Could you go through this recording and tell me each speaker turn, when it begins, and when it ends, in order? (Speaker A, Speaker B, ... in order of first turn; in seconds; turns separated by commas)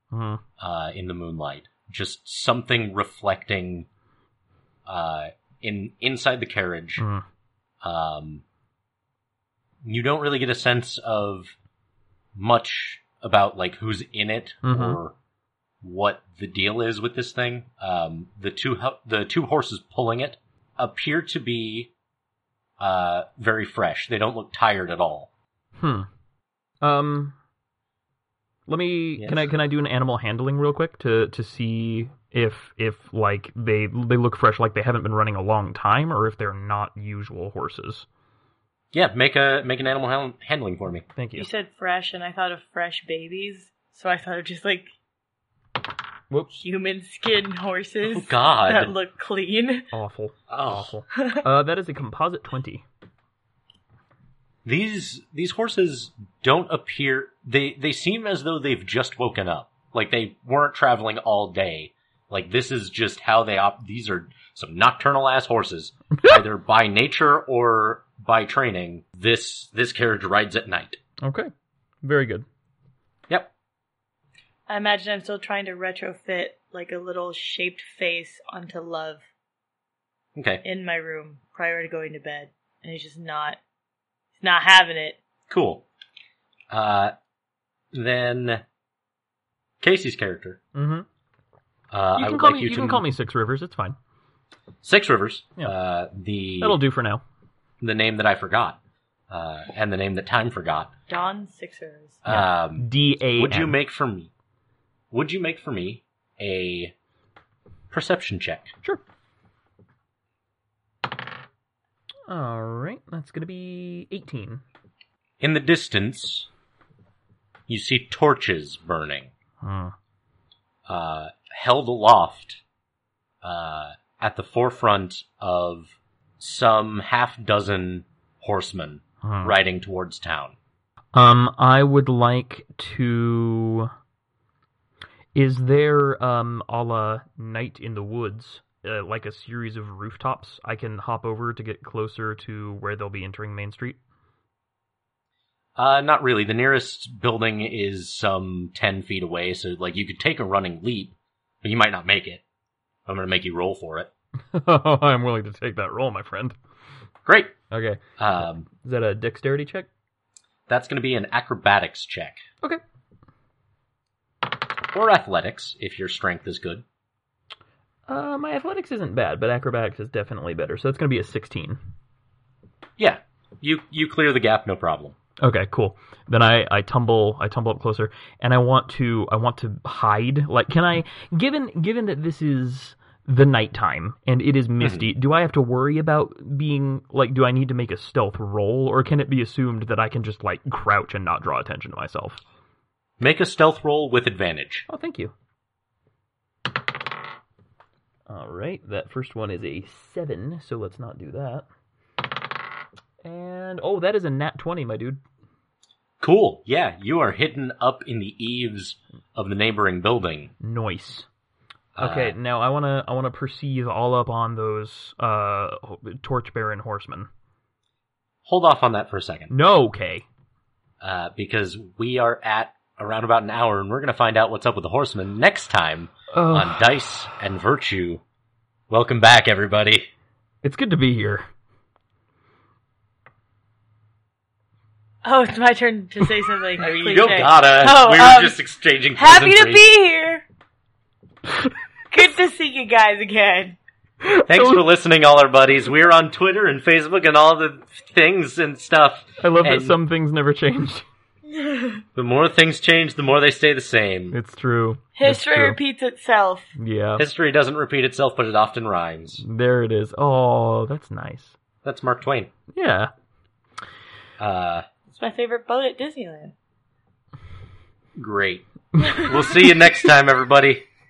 Speaker A: 0.1-0.4, Speaker B: 0.6-3.9, Speaker B: 4.9-7.0, Speaker A: 7.0-7.2, Speaker B: 7.8-8.4, Speaker B: 9.8-11.6, Speaker B: 12.4-15.2, Speaker A: 14.7-15.0, Speaker B: 15.8-21.9, Speaker B: 22.8-25.3, Speaker A: 25.8-26.1, Speaker A: 26.8-27.4, Speaker A: 28.7-38.0, Speaker B: 29.2-29.5, Speaker B: 38.9-41.0, Speaker A: 41.2-41.5, Speaker C: 41.4-44.9, Speaker A: 46.3-46.6, Speaker C: 46.5-49.9, Speaker B: 48.1-49.0, Speaker A: 49.9-52.8, Speaker B: 50.5-50.9, Speaker C: 51.1-51.5, Speaker B: 54.6-71.0, Speaker A: 71.2-71.5, Speaker A: 72.0-72.5, Speaker C: 74.7-79.3, Speaker B: 80.3-80.6, Speaker C: 80.6-83.6, Speaker C: 84.4-85.2, Speaker B: 85.5-85.8, Speaker B: 86.7-87.1, Speaker B: 87.9-88.6, Speaker B: 89.8-90.6, Speaker A: 90.8-91.1, Speaker B: 91.9-93.0, Speaker A: 92.2-94.0, Speaker B: 94.8-96.8, Speaker A: 96.6-97.2, Speaker B: 97.8-98.8, Speaker B: 99.3-100.9, Speaker C: 101.1-102.2, Speaker B: 102.2-104.3, Speaker A: 102.3-103.8, Speaker B: 105.1-106.9, Speaker B: 107.9-108.7, Speaker A: 112.3-114.6, Speaker B: 115.4-116.5, Speaker B: 117.7-119.3, Speaker A: 119.6-119.9, Speaker B: 120.9-122.6, Speaker B: 123.4-130.6, Speaker A: 129.2-129.5, Speaker A: 131.1-133.9, Speaker A: 135.3-144.0, Speaker B: 145.8-152.4, Speaker B: 153.1-154.1, Speaker A: 154.5-156.6, Speaker B: 157.3-157.6, Speaker A: 157.7-159.9, Speaker B: 158.2-158.7, Speaker B: 160.7-162.4, Speaker B: 164.9-166.8, Speaker A: 168.1-171.8, Speaker B: 173.0-175.2, Speaker A: 175.4-192.4, Speaker B: 184.8-185.1, Speaker B: 193.2-194.8, Speaker A: 194.9-195.3, Speaker A: 198.3-201.7, Speaker A: 203.2-205.2, Speaker B: 206.2-210.5, Speaker A: 210.6-211.3, Speaker B: 212.0-212.4, Speaker A: 212.0-217.3, Speaker B: 218.5-219.5, Speaker A: 219.5-220.2, Speaker B: 221.0-228.2, Speaker A: 226.3-226.9, Speaker B: 228.9-230.1, Speaker A: 230.6-231.5, Speaker C: 235.2-238.6, Speaker B: 236.8-239.8, Speaker C: 239.2-240.4, Speaker C: 242.1-243.8, Speaker A: 244.2-244.8, Speaker B: 244.5-250.0, Speaker A: 249.4-251.1, Speaker C: 251.5-252.0, Speaker B: 252.2-254.4, Speaker A: 254.3-255.8, Speaker C: 255.2-256.7, Speaker A: 256.8-257.2, Speaker B: 257.2-259.4, Speaker A: 259.4-261.6, Speaker B: 261.8-262.5, Speaker A: 262.7-263.1, Speaker B: 264.4-264.9, Speaker C: 265.1-266.6, Speaker B: 268.2-270.9, Speaker C: 269.0-269.2